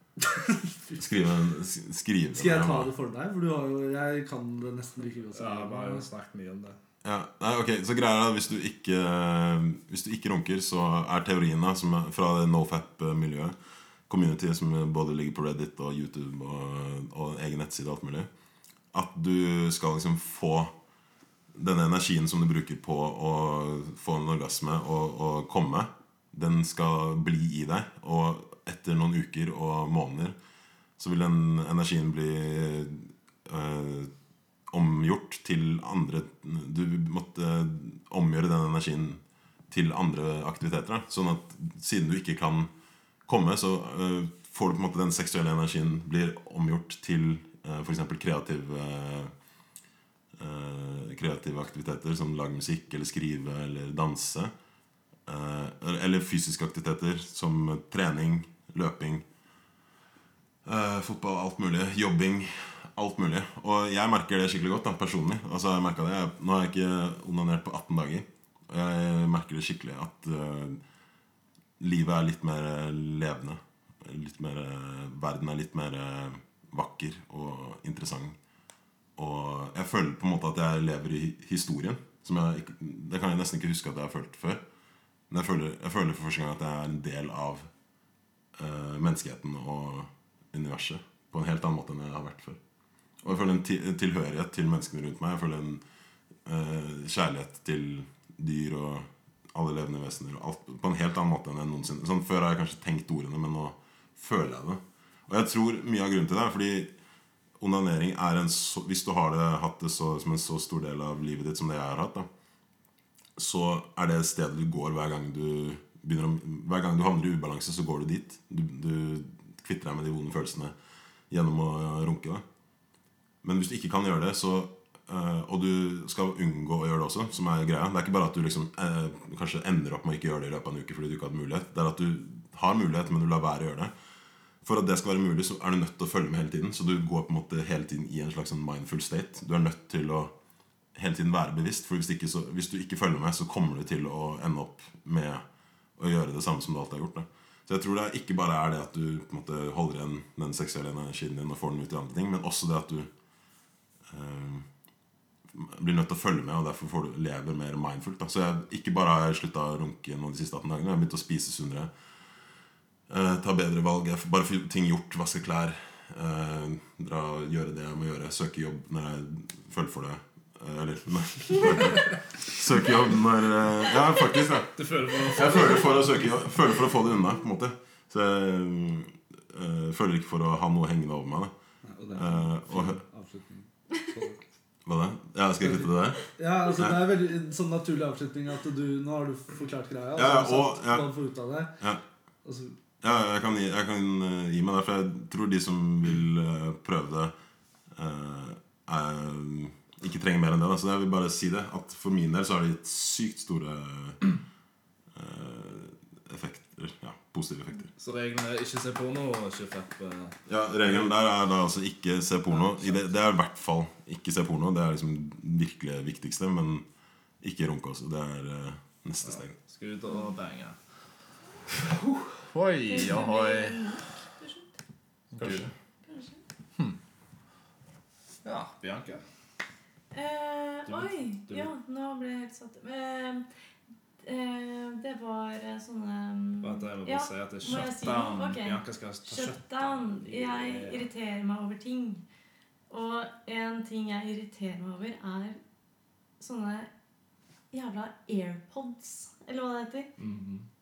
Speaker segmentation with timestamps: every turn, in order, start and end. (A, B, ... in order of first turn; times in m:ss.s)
0:00.4-0:01.0 A
0:01.0-0:02.9 B
0:02.3-0:06.0 A
0:05.3-0:06.8 C
0:07.0-0:13.5 B
0:14.1-0:18.3 B
0:18.9-0:20.7 B
0:21.5-0:30.4 B
0:31.0-0:34.1 B
0:34.7-0:42.7 B
0:43.2-0:49.3 B
0:50.4-0:54.5 B
0:55.2-0:59.2 B
1:00.6-1:10.8 B
1:11.8-1:18.4 B
1:19.2-1:24.6 B
1:25.3-1:27.7 B
1:28.6-1:32.6 B
1:33.2-1:35.8 B
1:36.4-1:46.9 B
1:47.6-1:52.3 B
1:53.4-2:00.7 B
2:01.3-2:02.4 B
2:03.4-2:13.9 B
2:14.6-2:20.3 B
2:20.9-2:25.4 B
2:26.0-2:33.1 B
2:34.1-2:34.6 B
2:35.5-2:41.9 B
2:43.1-3:01.5 B
2:54.7-2:56.1 C
3:01.8-3:04.4 A
3:02.1-3:03.0 B
3:04.8-3:07.0 B
3:05.6-3:11.8 A
3:10.2-3:11.1 B
3:12.4-3:12.8 A
3:13.0-3:17.3 B
3:17.9-3:24.3 B
3:25.1-3:27.9 B
3:28.0-3:31.1 C
3:30.5-3:36.8 B
3:37.4-3:39.5 B
3:39.2-3:40.8 C
3:42.5-3:43.8 C
3:42.9-3:44.8 D
3:45.3-3:45.7 C
3:45.4-3:45.7 B
3:46.0-3:46.4 D
3:48.4-3:49.2 C
3:50.1-3:53.5 D
3:50.9-3:51.7 C
3:54.2-4:02.2 D
3:56.6-4:01.1 C
4:02.9-4:05.6 D
4:06.4-4:06.9 D
4:07.7-4:10.1 D
4:10.2-4:10.7 C